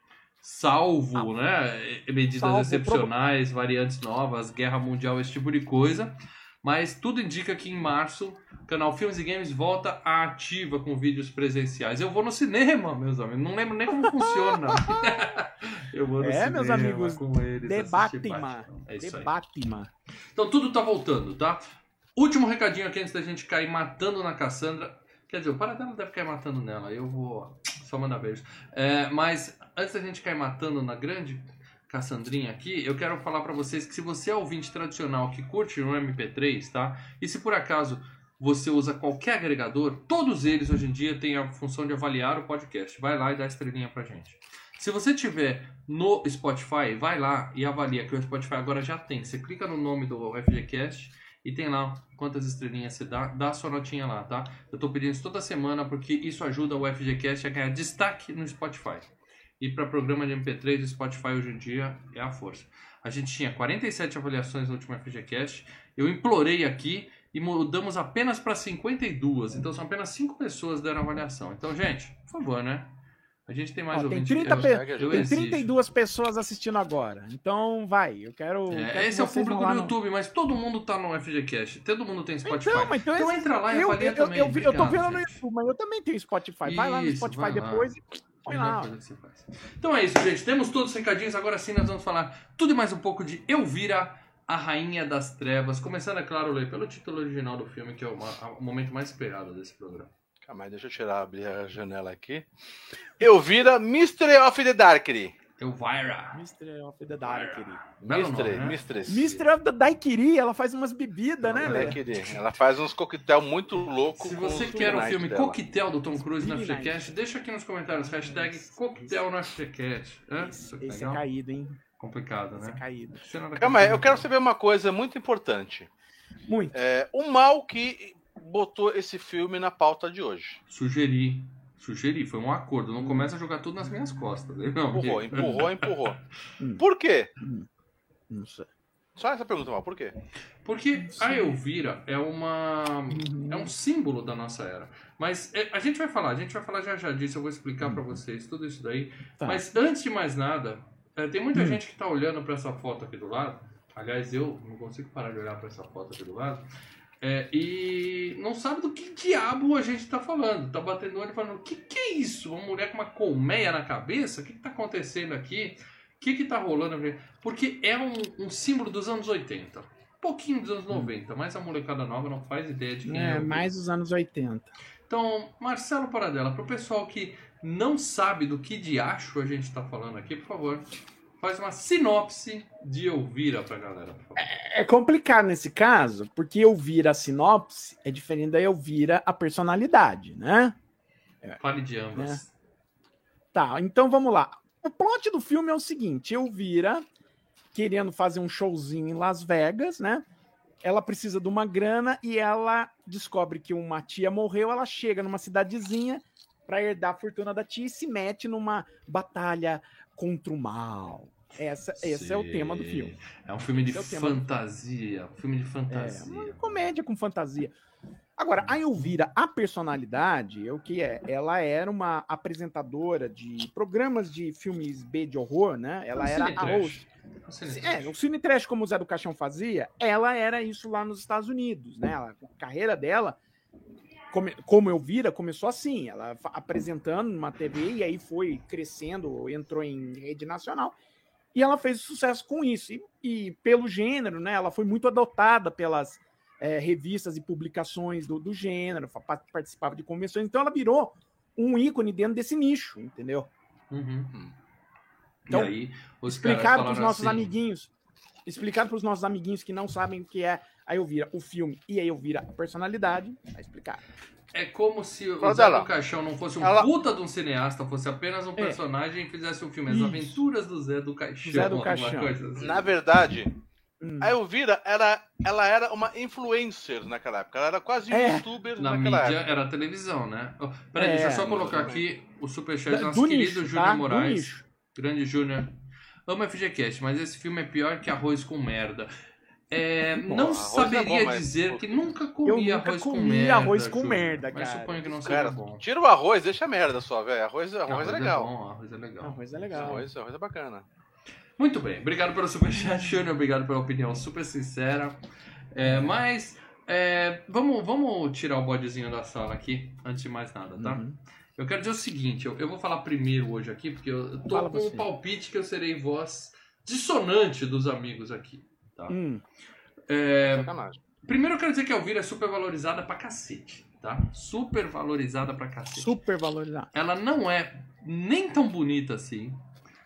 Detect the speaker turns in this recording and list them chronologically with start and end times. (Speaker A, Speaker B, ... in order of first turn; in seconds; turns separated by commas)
Speaker A: 0.4-19.3, Speaker B: 2.4-3.1, Speaker B: 14.0-15.3, Speaker B: 16.2-19.9, Speaker A: 20.3-21.6, Speaker A: 22.1-59.1, Speaker A: 59.6-75.7, Speaker B: 73.9-79.9, Speaker C: 74.5-75.3, Speaker A: 78.7-85.4, Speaker B: 82.4-88.9, Speaker A: 86.6-87.9, Speaker A: 88.5-100.1, Speaker C: 100.4-102.5, Speaker C: 103.2-105.3, Speaker A: 105.6-106.4, Speaker B: 106.3-107.8, Speaker A: 107.2-109.4, Speaker C: 108.0-109.3, Speaker B: 109.0-112.0, Speaker A: 111.4-112.4, Speaker C: 111.6-115.6, Speaker A: 114.1-121.2, Speaker B: 114.7-115.1, Speaker B: 116.1-117.2, Speaker B: 118.0-119.1, Speaker B: 120.4-121.8, Speaker A: 122.0-124.3, Speaker B: 122.5-123.2, Speaker C: 123.6-125.9, Speaker B: 126.5-126.7, Speaker C: 126.7-130.6, Speaker A: 130.7-136.1, Speaker B: 133.0-133.3, Speaker C: 134.9-136.2, Speaker C: 136.8-137.3, Speaker B: 137.4-137.7, Speaker B: 138.3-138.7, Speaker C: 139.2-140.1, Speaker A: 140.6-156.7, Speaker B: 141.0-141.6, Speaker B: 143.1-143.7, Speaker B: 147.8-148.2, Speaker B: 151.5-151.8, Speaker A: 157.2-173.7, Speaker B: 173.1-174.7, Speaker A: 175.1-180.9, Speaker A: 181.4-184.4, Speaker B: 184.4-190.8, Speaker A: 191.6-192.5, Speaker B: 192.1-192.4, Speaker B: 193.5-197.0, Speaker B: 197.7-200.2, Speaker B: 200.8-213.1, Speaker A: 212.0-216.9, Speaker B: 213.8-214.4, Speaker B: 215.9-217.7, Speaker B: 218.4-227.0, Speaker A: 218.6-219.1, Speaker A: 226.2-228.1, Speaker B: 227.7-233.4, Speaker B: 234.3-240.9, Speaker B: 241.5-253.5, Speaker A: 253.9-254.3, Speaker A: 255.5-257.5, Speaker B: 256.2-257.9, Speaker B: 258.4-264.0, Speaker A: 264.5-272.9, Speaker C: 265.4-265.9, Speaker C: 266.6-266.9, Speaker B: 269.9-270.4, Speaker B: 271.4-272.3, Speaker C: 272.6-273.5, Speaker B: 274.0-274.3, Speaker C: 274.2-279.4, Speaker B: 278.1-278.4, Speaker A: 278.8-285.7, Speaker B: 280.9-281.5, Speaker C: 281.4-282.0, Speaker B: 282.9-284.6, Speaker A: 286.3-289.1, Speaker A: 289.7-295.8, Speaker C: 290.3-292.1, Speaker B: 292.4-295.1, Speaker C: 295.2-298.5, Speaker A: 297.9-300.0, Speaker B: 299.2-300.0, Speaker C: 299.7-300.8, Speaker A: 301.6-305.2, Speaker A: 305.7-319.2, Speaker B: 305.8-306.1, Speaker B: 310.8-311.1, Speaker B: 314.5-315.1, Speaker B: 319.1-319.4, Speaker A: 320.1-320.7, Speaker C: 320.4-321.0, Speaker A: 321.2-326.1, Speaker B: 325.9-326.9, Speaker A: 326.9-329.6